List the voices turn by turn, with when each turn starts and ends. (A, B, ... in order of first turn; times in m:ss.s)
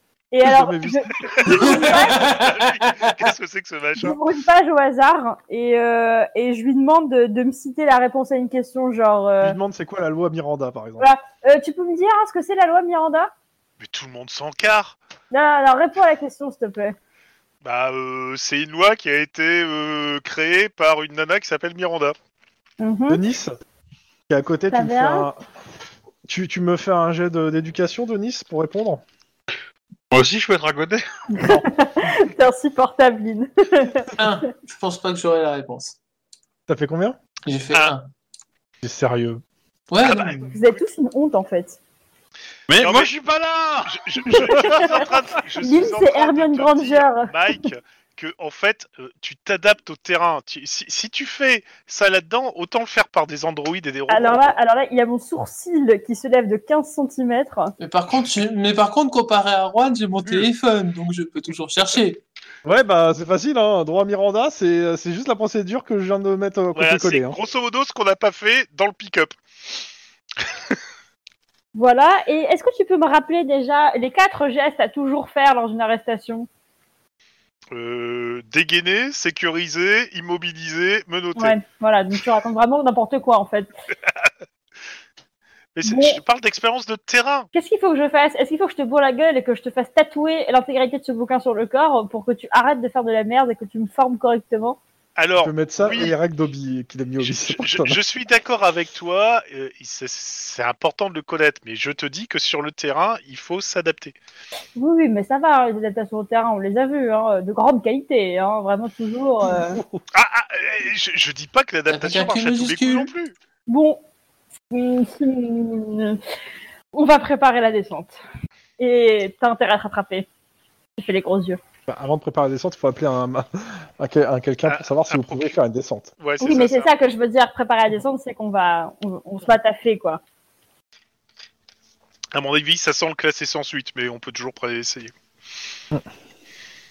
0:00.3-0:02.2 A
0:00.4-0:01.5 B
0:01.2-0:04.2 C
0:01.6-0:03.1 D
0:04.0-0:09.6 A
0:09.4-0:11.1 B
0:11.0-0:13.3 A
0:13.8-0:15.0 C
0:15.3-0:17.0 A
0:17.6-0:22.1 C
0:22.8-0:23.2 A
0:23.1-0:23.6 B
0:24.3-0:25.4 B
0:24.7-0:25.3 A
0:26.3-0:29.0 B
0:30.1-0:31.0 E
0:31.3-0:34.2 A
0:34.2-0:36.0 D
0:36.7-0:37.2 B
0:37.4-0:38.1 D
0:38.8-0:39.4 B
0:39.9-0:40.5 D
0:40.0-0:40.8 C
0:40.5-0:41.8 A
0:42.7-0:44.5 E
0:42.8-0:43.1 C
0:43.8-0:54.4 C
0:44.3-0:45.0 A
0:45.6-0:47.6 A
0:54.1-0:57.7 A
0:57.8-1:02.2 D
1:02.6-1:07.4 B
1:06.7-1:09.4 C
1:11.7-1:16.5 A
1:17.7-1:21.6 C
1:21.4-1:23.7 A
1:25.7-1:27.5 C
1:25.8-1:26.2 A
1:27.5-1:34.8 A
1:35.2-1:36.1 C
1:35.4-1:38.0 B
1:37.2-1:44.2 C
1:44.8-1:49.8 A
1:49.7-1:50.0 B
1:50.1-1:53.3 C
1:51.9-1:53.1 D
1:53.7-1:54.0 A
1:54.7-1:56.2 A
1:56.9-1:58.2 A
1:58.8-2:00.2 A
2:01.0-2:01.6 A
2:01.9-2:06.1 B
2:04.6-2:05.5 C
2:06.2-2:06.9 C
2:06.4-2:10.2 A
2:12.3-2:15.1 C